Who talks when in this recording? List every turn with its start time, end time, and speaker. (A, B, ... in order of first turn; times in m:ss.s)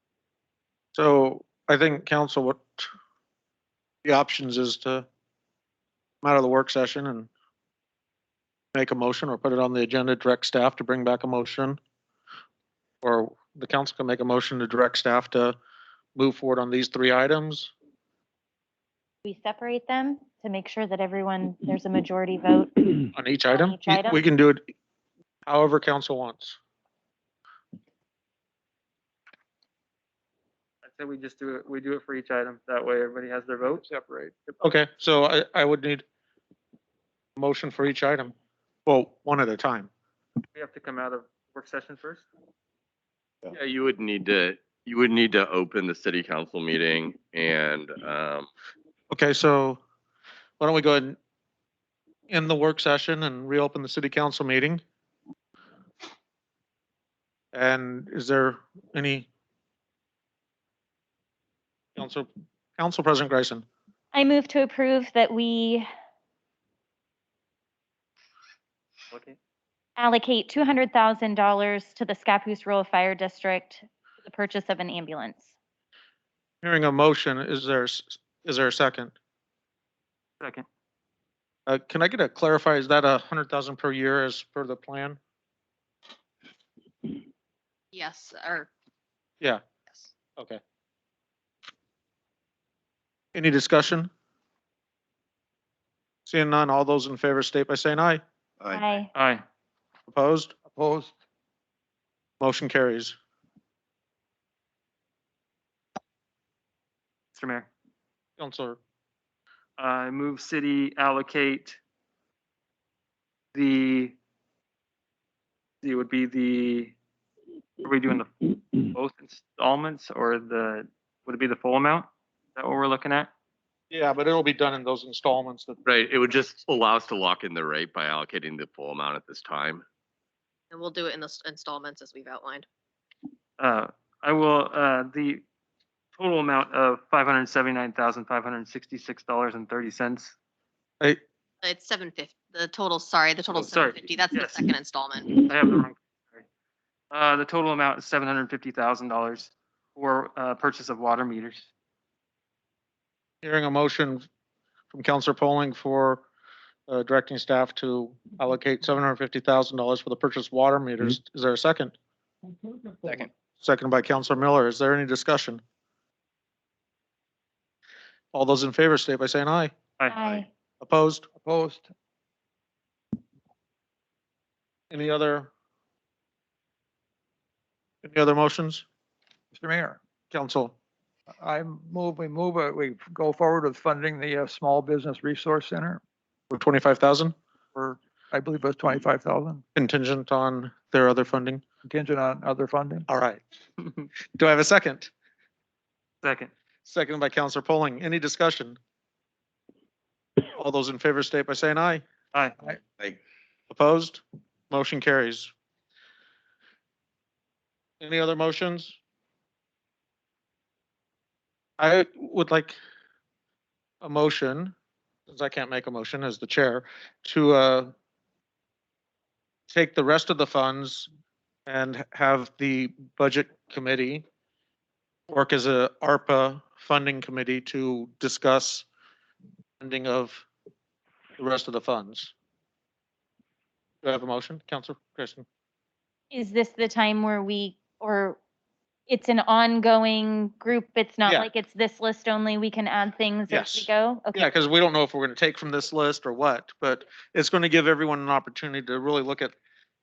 0:00.9-0:02.9 A
0:04.0-0:05.0 A
0:06.2-0:07.3 A
0:08.7-0:11.8 A
0:13.0-0:15.6 A
0:16.2-0:17.7 A
0:19.2-0:22.9 B
0:23.2-0:24.7 A
0:23.5-0:24.2 B
0:25.5-0:26.6 A
0:30.8-0:33.8 C
0:33.7-0:34.3 D
0:34.6-0:36.0 A
0:37.4-0:38.3 A
0:38.9-0:39.9 A
0:40.6-0:42.3 C
0:43.5-0:48.5 E
0:49.1-0:49.8 A
0:50.6-0:51.2 A
0:52.3-0:54.8 A
0:57.5-0:59.3 A
1:02.0-1:03.6 A
1:04.1-1:05.9 B
1:09.1-1:09.4 C
1:10.0-1:15.5 B
1:16.6-1:19.1 A
1:21.7-1:25.2 A
1:27.9-1:28.7 F
1:33.4-1:34.1 A
1:36.3-1:38.2 A
1:38.7-1:39.1 B
1:39.1-1:39.4 C
1:40.1-1:40.5 A
1:40.7-1:41.2 D
1:42.4-1:43.2 A
1:47.3-1:47.7 C
1:48.4-1:48.8 A
1:49.8-1:51.8 C
1:53.5-1:54.2 C
1:55.8-1:56.9 C
1:57.8-2:03.3 C
2:03.9-2:05.8 A
2:05.9-2:09.8 E
2:10.7-2:12.7 F
2:13.6-2:15.4 C
2:16.2-2:20.3 C
2:21.6-2:25.5 F
2:23.6-2:24.6 C
2:25.4-2:26.4 C
2:27.1-2:31.7 C
2:33.4-2:34.3 A
2:34.9-2:36.2 A
2:36.9-2:41.9 A
2:43.6-2:45.6 A
2:48.3-2:49.7 A
2:50.1-2:50.5 B
2:50.8-2:51.3 A
2:51.4-2:51.9 D
2:54.9-2:55.5 A
2:58.0-2:58.8 A
2:59.5-3:00.0 D
3:00.3-3:00.8 A
3:01.4-3:06.0 D
3:06.5-3:07.4 A
3:07.8-3:09.6 D
3:09.8-3:11.6 A
3:11.8-3:13.1 D
3:13.1-3:13.4 A
3:14.4-3:15.1 A
3:16.2-3:16.5 C
3:16.9-3:18.8 A
3:20.4-3:22.0 A
3:23.7-3:25.5 A
3:28.0-3:29.0 A
3:31.8-3:32.8 A
3:34.0-3:34.7 A
3:35.3-3:37.9 A
3:39.7-3:41.1 A
3:41.7-3:44.2 A
3:45.3-3:48.9 A
3:49.8-3:50.5 A
3:51.4-3:52.3 A
3:54.0-3:55.4 A
3:56.3-3:58.4 B
3:59.1-4:04.5 B
4:03.5-4:09.6 A